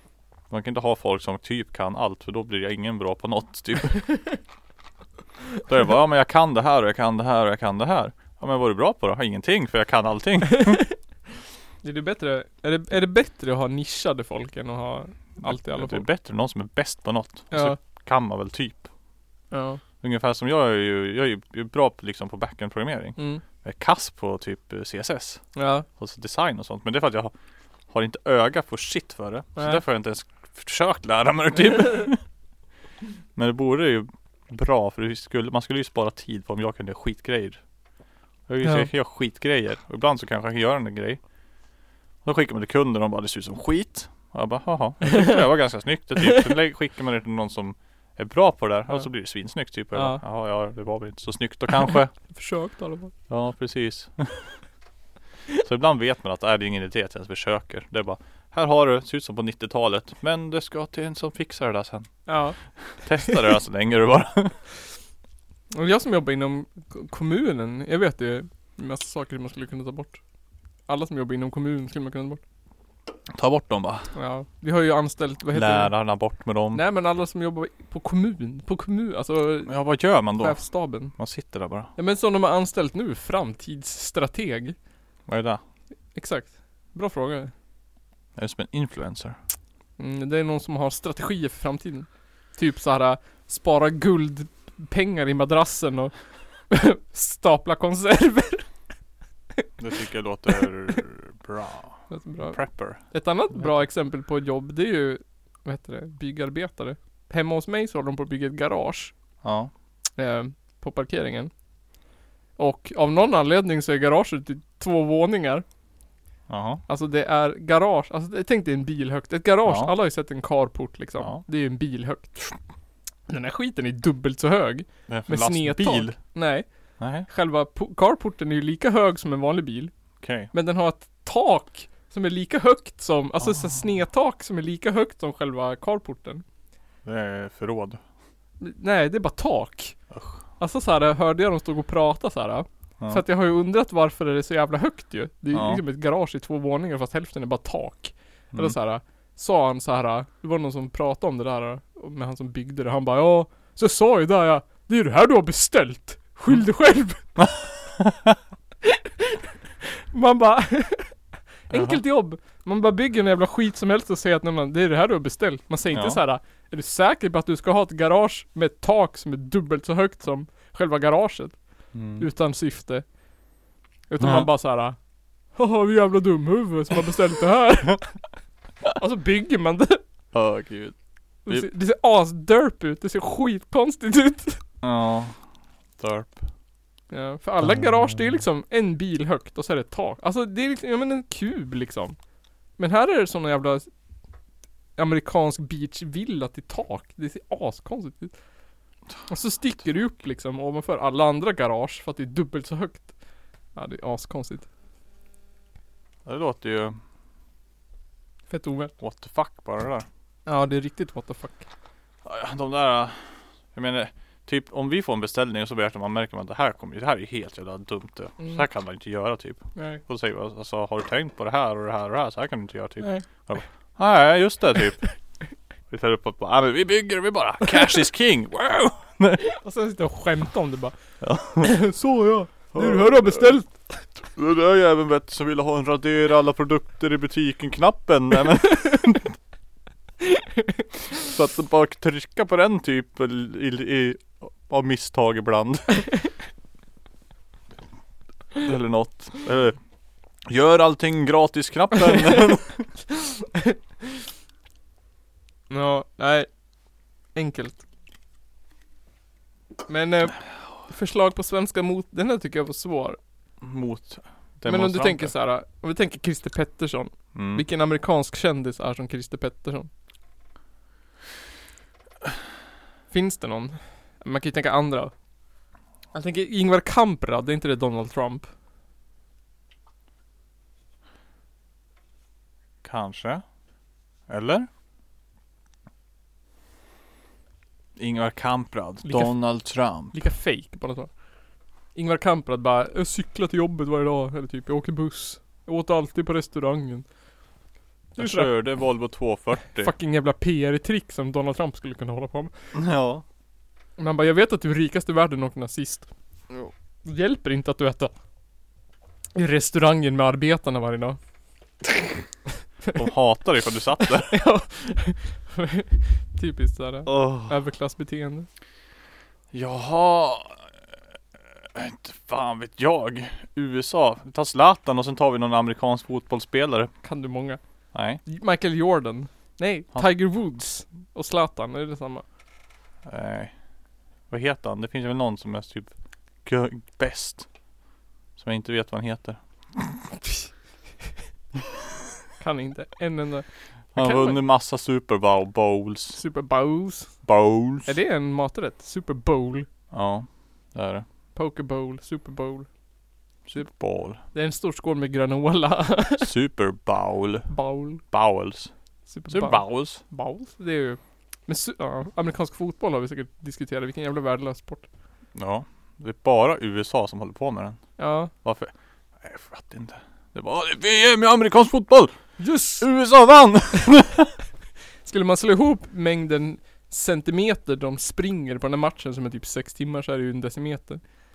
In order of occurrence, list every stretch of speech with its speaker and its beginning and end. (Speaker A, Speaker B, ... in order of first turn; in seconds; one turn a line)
Speaker A: 0.5-4.1
Speaker A: 5.7-10.8
Speaker B: 11.8-16.1
Speaker A: 15.4-18.9
Speaker B: 17.5-17.8
Speaker B: 19.5-19.8
Speaker A: 20.0-25.5
Speaker B: 23.2-23.4
Speaker B: 25.6-25.9
Speaker A: 26.0-27.3
Speaker A: 27.9-32.2
Speaker B: 29.6-29.8
Speaker A: 33.4-37.6
Speaker A: 38.5-41.2
Speaker B: 38.6-38.9
Speaker A: 42.2-52.1
Speaker B: 49.9-50.2
Speaker B: 52.3-53.1
Speaker A: 53.3-54.5
Speaker A: 55.6-62.3
Speaker B: 62.3-62.6
Speaker A: 63.0-64.6
Speaker B: 65.7-70.2
Speaker B: 70.9-72.4
Speaker A: 73.3-74.1
Speaker B: 74.1-76.0
Speaker A: 75.5-76.8
Speaker B: 76.7-79.8
Speaker A: 79.7-81.9
Speaker B: 80.4-81.1
Speaker B: 82.0-84.8
Speaker A: 85.3-85.6
Speaker B: 86.2-87.5
Speaker A: 88.4-89.4
Speaker B: 90.0-98.7
Speaker A: 99.8-103.0
Speaker B: 102.1-109.1
Speaker A: 109.4-109.7
Speaker B: 110.2-111.5
Speaker B: 112.6-115.7
Speaker A: 116.5-116.8
Speaker B: 116.9-122.5
Speaker A: 119.7-119.9
Speaker B: 123.3-126.7
Speaker A: 125.1-126.2
Speaker A: 127.0-127.3
Speaker B: 127.2-129.9
Speaker A: 130.2-130.5
Speaker B: 130.5-136.4
Speaker A: 137.0-138.0
Speaker B: 138.6-140.0
Speaker A: 140.1-140.4
Speaker B: 140.6-157.5
Speaker A: 145.5-145.8
Speaker A: 157.4-158.4
Speaker B: 160.1-161.2
Speaker B: 161.7-173.1
Speaker A: 161.7-162.0
Speaker A: 165.9-166.2
Speaker A: 171.9-172.3
Speaker B: 174.1-175.0
Speaker A: 174.2-174.5
Speaker B: 175.5-178.2
Speaker B: 178.9-180.0
Speaker A: 180.3-181.0
Speaker B: 181.5-184.6
Speaker A: 184.8-185.4
Speaker A: 186.0-186.4
Speaker B: 187.1-192.2
Speaker B: 192.8-193.9
Speaker B: 195.0-198.3
Speaker B: 199.3-203.1
Speaker B: 203.8-204.7
Speaker A: 206.2-207.0
Speaker B: 208.5-208.9
Speaker A: 209.0-210.1
Speaker B: 210.5-211.7
Speaker A: 212.2-213.2
Speaker A: 213.7-225.1
Speaker B: 219.8-220.0
Speaker B: 223.0-223.3
Speaker A: 225.9-229.4
Speaker B: 229.5-230.9
Speaker A: 231.2-231.8
Speaker B: 231.5-234.1
Speaker A: 232.7-233.5
Speaker A: 234.2-239.3
Speaker A: 241.2-246.1
Speaker A: 248.6-249.8
Speaker A: 250.5-252.9
Speaker B: 255.7-256.5
Speaker B: 257.3-257.8
Speaker B: 259.9-263.2
Speaker A: 263.6-265.3
Speaker B: 264.6-269.9
Speaker A: 267.3-267.6
Speaker B: 273.1-275.1
Speaker B: 276.1-278.5
Speaker A: 282.8-283.4
Speaker A: 284.3-284.7
Speaker A: 288.0-290.2
Speaker B: 289.1-291.2
Speaker B: 291.9-297.1
Speaker B: 298.2-298.5
Speaker A: 298.2-299.9
Speaker B: 299.8-302.5
Speaker A: 302.7-303.2
Speaker B: 304.0-306.1
Speaker B: 307.0-308.1
Speaker B: 309.4-311.2
Speaker A: 312.9-314.4
Speaker B: 314.2-318.5
Speaker A: 317.1-317.6
Speaker A: 319.5-320.7
Speaker A: 321.6-326.9
Speaker B: 327.0-327.6
Speaker A: 327.9-328.2
Speaker B: 328.2-332.2
Speaker A: 333.1-333.5
Speaker A: 334.3-335.9
Speaker A: 336.4-337.5
Speaker A: 338.4-339.4
Speaker B: 342.4-344.4
Speaker A: 343.9-346.2
Speaker B: 346.1-347.1
Speaker A: 347.2-347.9
Speaker B: 347.8-349.7
Speaker A: 349.9-351.1
Speaker B: 351.4-352.7
Speaker A: 353.5-354.2
Speaker B: 354.3-356.3
Speaker A: 356.2-358.7
Speaker B: 357.5-358.0
Speaker B: 359.1-364.9
Speaker A: 359.3-360.0
Speaker A: 365.4-367.8
Speaker B: 368.0-368.3
Speaker A: 368.4-374.3
Speaker B: 372.4-372.9
Speaker B: 375.1-381.0